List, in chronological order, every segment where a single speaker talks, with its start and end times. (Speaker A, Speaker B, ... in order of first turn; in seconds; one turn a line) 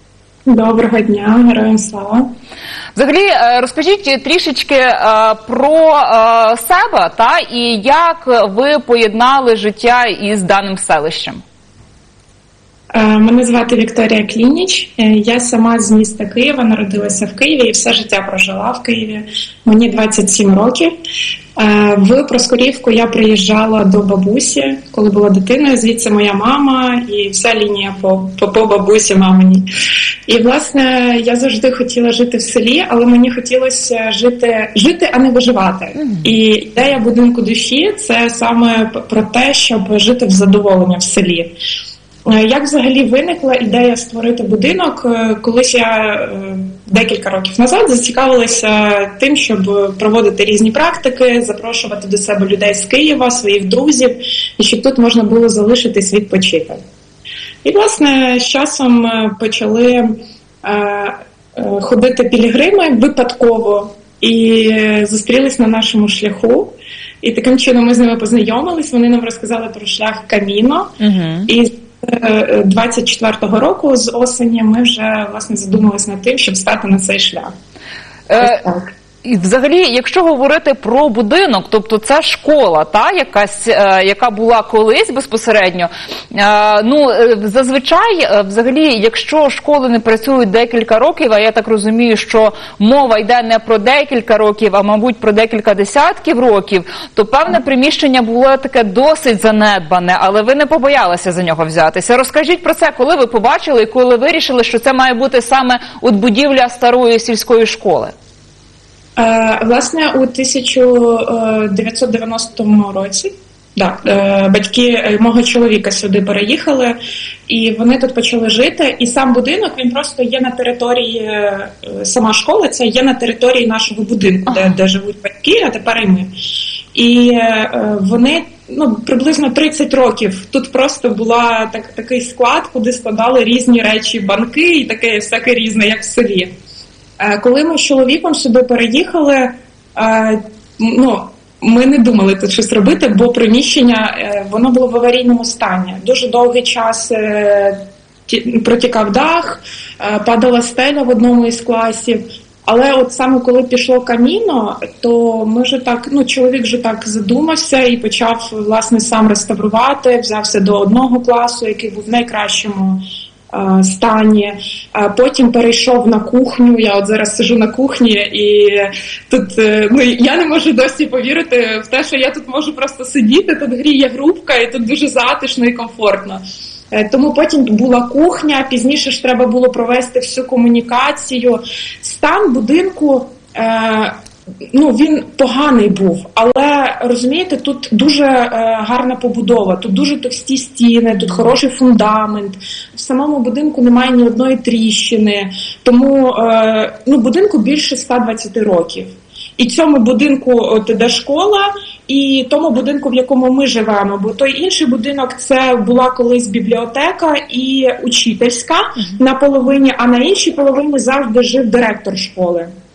Speaker A: 0.5-2.3
Speaker B: 2.9-11.4
Speaker A: 12.9-20.9
Speaker A: 21.6-29.7
Speaker A: 30.3-41.5
Speaker B: 36.0-36.2
Speaker A: 42.3-56.8
Speaker A: 57.6-70.9
Speaker B: 71.0-71.5
Speaker A: 71.5-77.5
Speaker B: 78.3-78.6
Speaker A: 78.4-78.8
Speaker B: 79.2-108.1
Speaker A: 109.2-117.0
Speaker A: 117.5-126.3
Speaker B: 124.5-124.8
Speaker A: 126.9-136.5
Speaker A: 137.2-184.2
Speaker A: 184.7-212.7
Speaker B: 191.1-191.5